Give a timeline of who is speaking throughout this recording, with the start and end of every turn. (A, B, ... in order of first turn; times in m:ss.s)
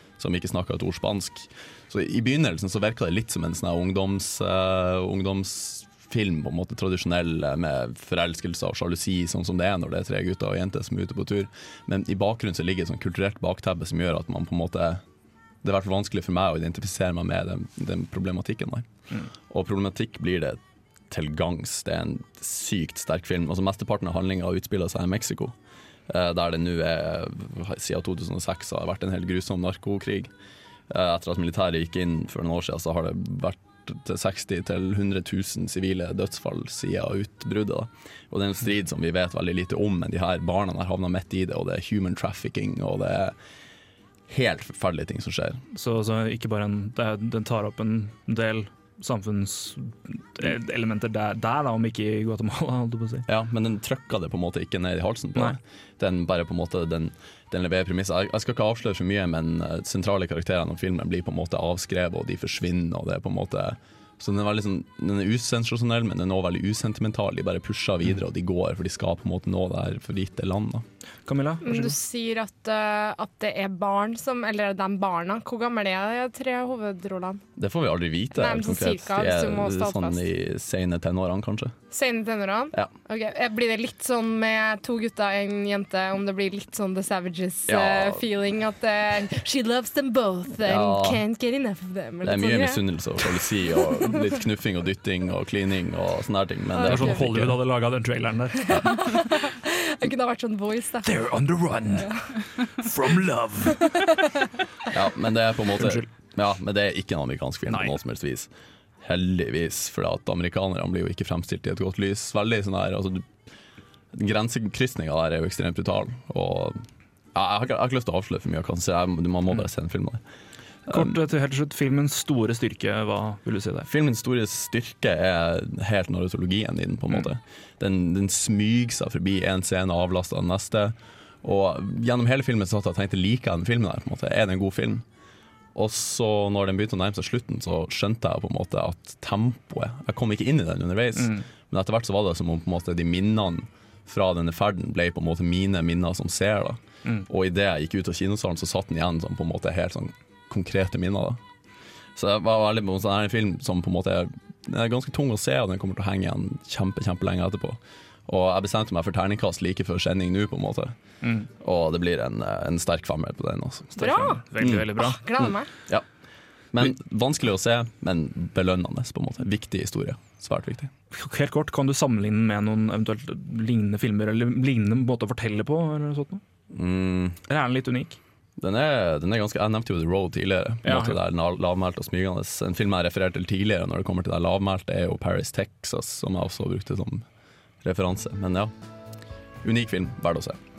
0:00.2-0:15.0 A
0:15.6-0:18.9 A
0:19.5-0:25.5 A
0:26.1-0:30.3 A
0:30.9-0:43.3 A
0:44.3-0:45.6 A
0:45.7-0:53.2 B
0:53.3-1:10.8 A
1:11.3-1:11.9 B
1:11.6-1:17.4 C
1:17.6-1:21.8 A
1:18.3-1:20.2 C
1:21.9-1:34.3 C
1:27.7-1:28.2 A
1:30.6-1:31.2 A
1:32.2-1:37.6 A
1:36.7-1:37.2 C
1:36.8-1:38.8 B
1:38.6-1:41.2 C
1:41.0-1:42.1 B
1:41.9-1:42.3 C
1:42.8-1:44.0 B
1:44.9-1:48.5 A
1:45.8-1:46.1 B
1:47.7-1:47.9 B
1:49.0-1:53.3 A
1:54.1-1:56.8 A
1:57.3-2:00.2 A
2:00.9-2:03.9 B
2:03.9-2:15.0 A
2:15.7-2:31.4 A
2:21.2-2:21.4 B
2:32.2-2:40.9 A
2:41.2-2:41.5 B
2:41.6-2:44.0 A
2:44.0-2:45.2 B
2:44.0-2:45.7 C
2:44.6-2:46.0 A
2:46.7-2:50.9 A
2:51.1-2:56.4 B
2:56.7-2:57.4 A
2:57.5-2:58.2 B
2:58.6-3:07.2 A
3:00.8-3:01.2 B
3:07.8-3:08.7 A
3:09.6-3:10.6 A